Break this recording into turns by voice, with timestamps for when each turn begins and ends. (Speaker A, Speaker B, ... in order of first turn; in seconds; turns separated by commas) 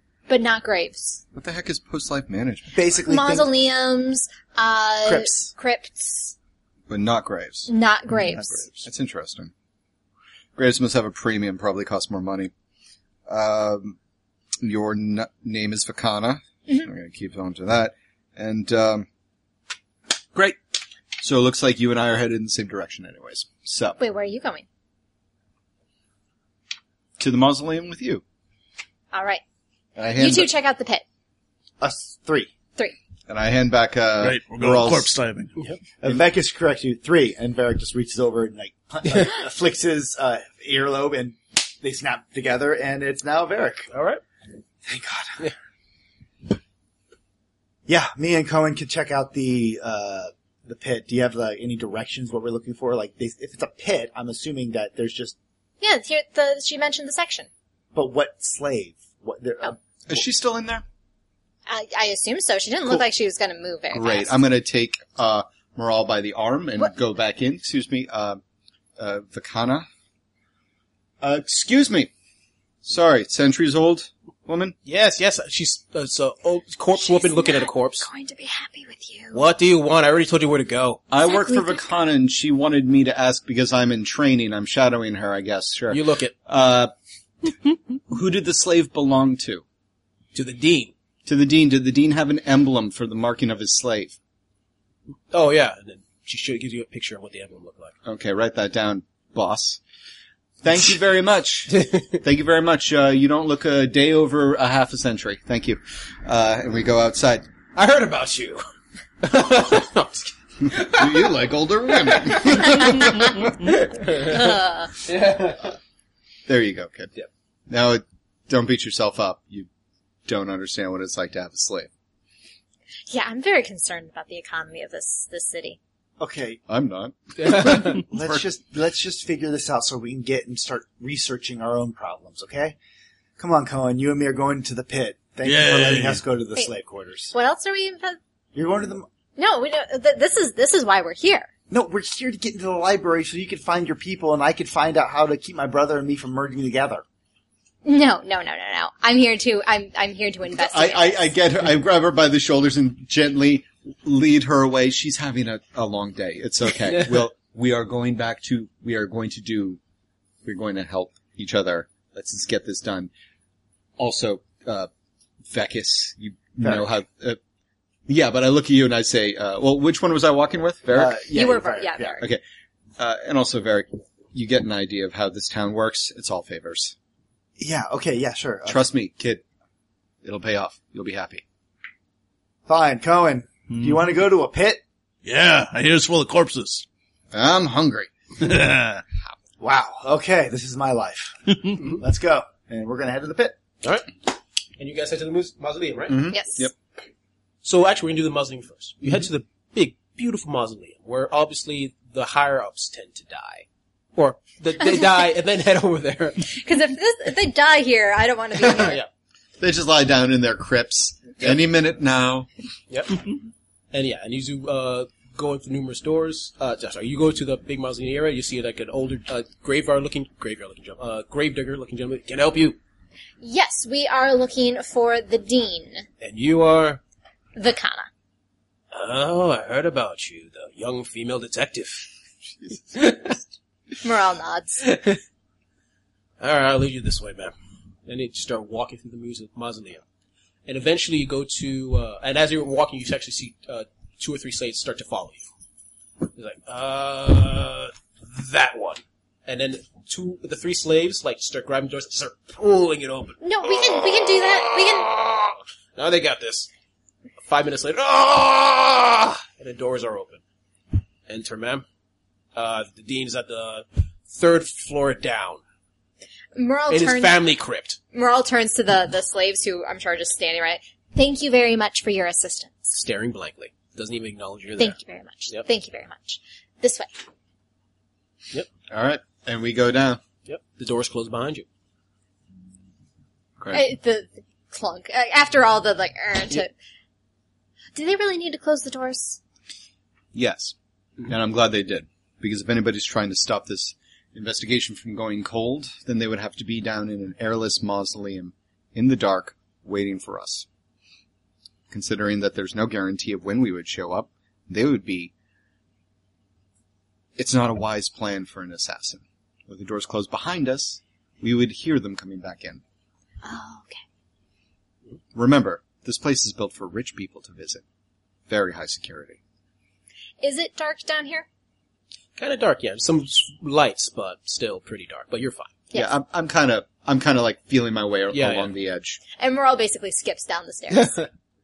Speaker A: 0.3-1.2, Speaker B: 1.3-2.8, Speaker C: 2.7-3.5, Speaker A: 3.1-6.3, Speaker C: 5.0-5.5, Speaker B: 6.9-7.7, Speaker A: 7.7-8.7, Speaker B: 8.8-9.5, Speaker B: 10.6-12.5, Speaker B: 13.3-14.0, Speaker B: 14.6-19.1, Speaker B: 21.2-24.0, Speaker A: 24.0-24.6, Speaker B: 27.2-28.2, Speaker A: 29.1-29.4, Speaker B: 30.0-30.5, Speaker A: 30.2-31.0, Speaker C: 31.8-32.5, Speaker B: 33.3-35.1, Speaker D: 34.2-35.5, Speaker C: 36.0-43.9, Speaker E: 43.9-44.2, Speaker C: 44.9-45.4, Speaker C: 47.9-55.3, Speaker A: 55.8-57.5, Speaker C: 57.9-59.8, Speaker B: 60.1-60.8, Speaker A: 61.7-64.3, Speaker B: 63.9-68.4, Speaker B: 69.0-69.8, Speaker B: 71.2-72.1, Speaker B: 72.8-74.7, Speaker E: 74.8-78.1, Speaker A: 76.9-79.4, Speaker E: 79.3-81.0, Speaker B: 81.1-86.9, Speaker A: 81.2-81.8, Speaker E: 85.9-86.3, Speaker B: 88.1-89.6, Speaker E: 90.3-90.9, Speaker B: 91.2-94.2, Speaker E: 95.3-97.9, Speaker B: 98.0-99.8, Speaker B: 100.6-107.5, Speaker E: 107.7-108.7, Speaker E: 109.2-111.3, Speaker B: 110.6-113.7, Speaker E: 112.0-112.7, Speaker E: 113.6-115.8, Speaker A: 114.2-114.9, Speaker B: 116.5-117.1, Speaker B: 117.7-119.7, Speaker B: 120.3-121.9, Speaker A: 123.1-125.8, Speaker C: 126.2-126.6, Speaker B: 126.7-128.4, Speaker E: 127.4-128.0, Speaker C: 127.8-132.8, Speaker C: 133.4-137.3, Speaker D: 135.4-136.2, Speaker A: 137.3-138.2, Speaker C: 138.5-139.1, Speaker A: 139.4-141.5, Speaker C: 141.7-147.0, Speaker A: 147.8-151.3, Speaker B: 150.5-159.8, Speaker E: 156.8-157.2, Speaker B: 160.4-163.1, Speaker B: 164.0-164.9, Speaker B: 165.5-167.4, Speaker B: 168.1-171.2, Speaker C: 170.9-172.2, Speaker A: 171.3-172.2, Speaker B: 173.0-176.9, Speaker C: 177.6-178.8, Speaker B: 178.7-179.4, Speaker B: 180.2-181.4, Speaker C: 182.7-184.8, Speaker D: 183.7-184.0, Speaker D: 185.2-186.8, Speaker B: 187.3-188.1, Speaker D: 188.4-189.0, Speaker C: 189.6-193.6, Speaker E: 193.8-194.1, Speaker E: 194.8-196.3, Speaker B: 196.1-196.7, Speaker A: 196.3-196.6, Speaker E: 197.6-206.5, Speaker A: 206.5-209.0, Speaker E: 208.7-209.1, Speaker B: 209.6-212.5, Speaker E: 212.9-213.2, Speaker E: 213.9-222.8, Speaker A: 223.4-226.1, Speaker E: 226.2-227.0, Speaker A: 227.6-228.1, Speaker E: 228.9-232.1, Speaker B: 232.6-233.3, Speaker E: 232.9-233.4, Speaker A: 234.0-234.8, Speaker E: 234.8-235.2, Speaker E: 236.4-237.5, Speaker E: 238.1-240.0, Speaker E: 240.7-245.5, Speaker E: 246.3-256.7, Speaker A: 253.4-255.1, Speaker E: 257.4-260.4, Speaker E: 261.3-261.8, Speaker E: 262.5-265.6, Speaker A: 266.5-267.4, Speaker E: 266.9-268.0, Speaker A: 268.1-272.9, Speaker E: 272.9-275.0, Speaker A: 274.8-277.1, Speaker B: 278.9-280.2, Speaker E: 280.4-281.6, Speaker A: 283.7-286.7, Speaker A: 287.9-289.4, Speaker B: 290.3-290.7, Speaker B: 291.3-300.6, Speaker B: 301.9-305.3, Speaker B: 307.4-312.8, Speaker A: 313.4-314.0, Speaker B: 315.3-317.8, Speaker B: 318.5-319.4, Speaker A: 320.4-321.4, Speaker E: 322.4-325.7, Speaker B: 325.9-329.2, Speaker E: 328.3-328.7, Speaker A: 329.4-331.2, Speaker E: 330.9-331.2